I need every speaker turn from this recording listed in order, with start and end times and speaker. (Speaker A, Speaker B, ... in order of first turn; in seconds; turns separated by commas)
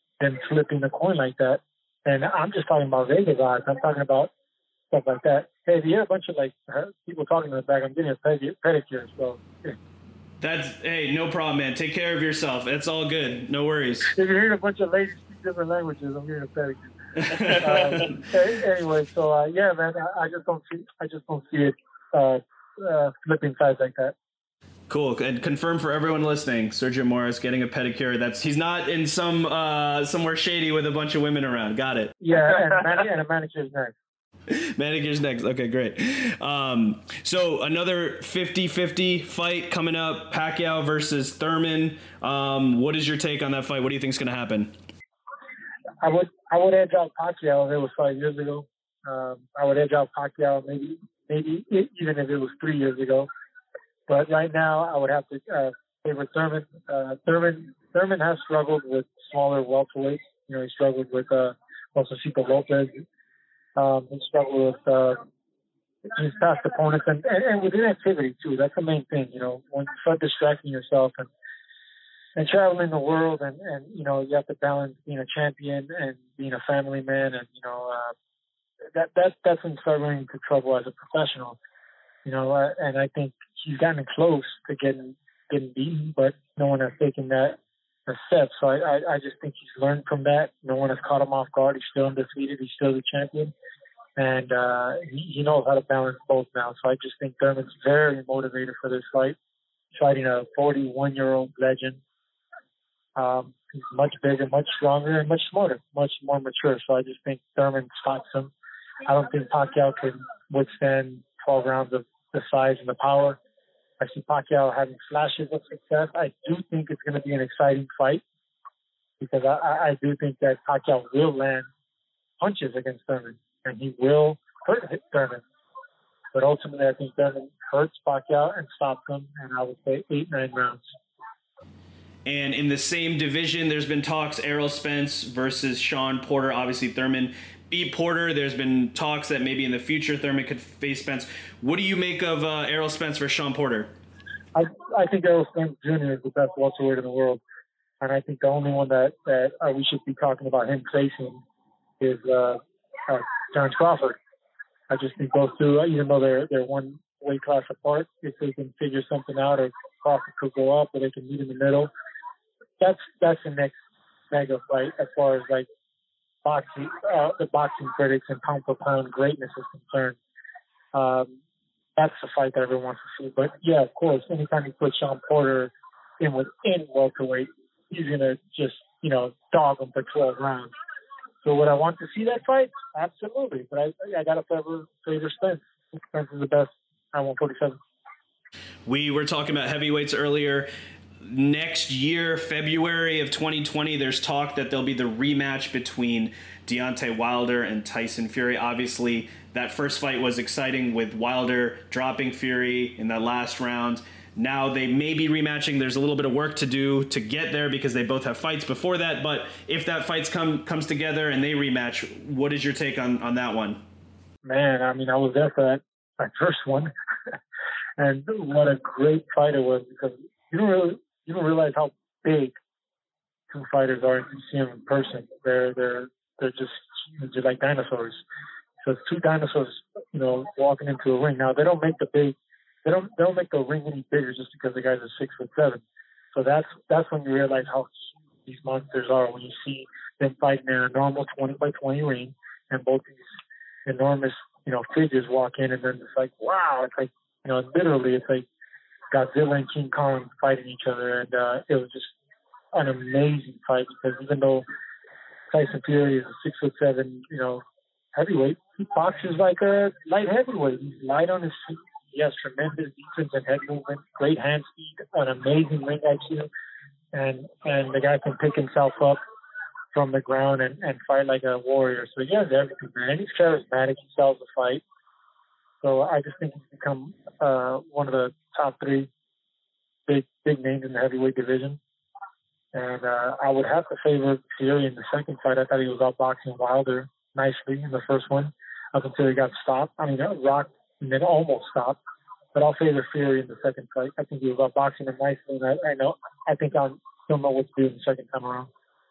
Speaker A: 0.2-4.3, Speaker A: 4.9-9.8, Speaker B: 10.4-14.1, Speaker A: 14.1-24.1, Speaker B: 17.2-18.0, Speaker B: 24.9-32.1, Speaker A: 32.2-34.0, Speaker B: 34.8-44.7, Speaker A: 46.0-53.3, Speaker A: 54.1-63.0, Speaker A: 63.8-65.2, Speaker A: 66.1-71.3, Speaker A: 72.4-78.1, Speaker A: 78.9-81.6, Speaker A: 82.2-93.5, Speaker A: 94.2-99.4, Speaker A: 99.9-102.0, Speaker A: 103.2-108.5, Speaker A: 109.1-113.4, Speaker A: 114.0-118.2, Speaker A: 119.2-121.7, Speaker A: 122.4-125.4, Speaker A: 126.3-130.8, Speaker B: 132.3-143.9, Speaker A: 144.5-147.4, Speaker A: 148.0-151.4, Speaker A: 152.0-154.2, Speaker A: 154.9-161.9, Speaker A: 162.8-163.8, Speaker A: 164.3-165.7, Speaker A: 166.4-170.2, Speaker A: 170.9-171.3, Speaker A: 172.0-180.7, Speaker A: 181.4-187.8, Speaker B: 188.9-190.7, Speaker B: 191.2-213.8, Speaker A: 214.4-216.9, Speaker A: 218.0-222.6, Speaker A: 223.5-228.2, Speaker A: 228.8-243.2, Speaker A: 243.9-248.5, Speaker A: 249.1-252.1, Speaker A: 252.7-254.7, Speaker A: 255.5-257.6, Speaker A: 258.1-266.5, Speaker A: 267.1-269.2, Speaker A: 269.9-274.8, Speaker A: 275.8-279.1, Speaker A: 280.1-281.8, Speaker A: 282.7-292.0, Speaker A: 292.5-298.7